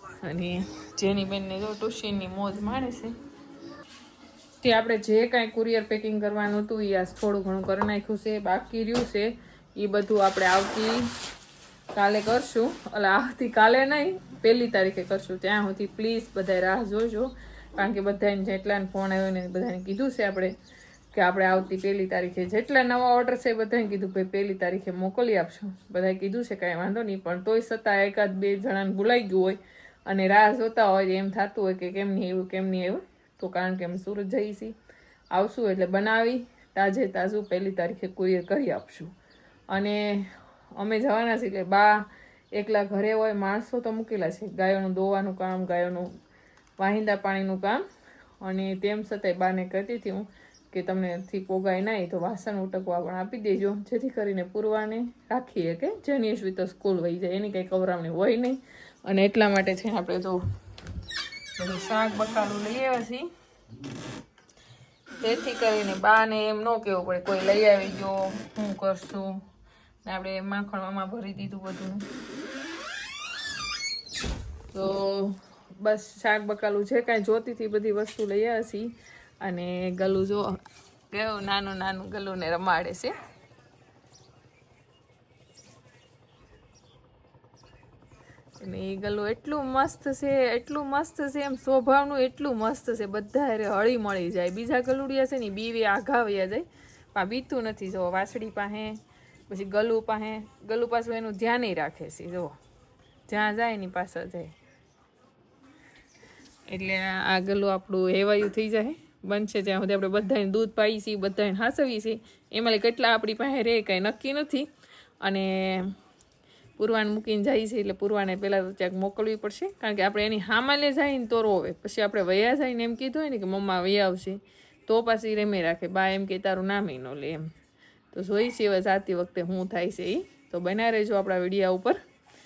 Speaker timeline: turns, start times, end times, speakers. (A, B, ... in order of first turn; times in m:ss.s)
0:00.2-0:03.2 A
0:04.6-0:11.1 A
0:11.9-0:20.6 A
0:21.1-0:34.7 A
0:35.3-0:39.1 A
0:39.7-0:46.1 A
0:46.8-0:47.8 A
0:48.4-1:00.4 A
1:01.6-1:03.3 A
1:05.2-1:09.4 A
1:10.0-1:12.0 A
1:14.7-1:18.9 A
1:19.4-1:20.5 A
1:21.1-1:23.1 A
1:28.6-1:39.0 A
1:39.5-1:42.6 A
1:43.3-1:44.5 A
1:46.7-1:54.7 A
1:55.2-1:55.9 A
1:56.8-2:07.4 A
2:08.1-2:12.0 A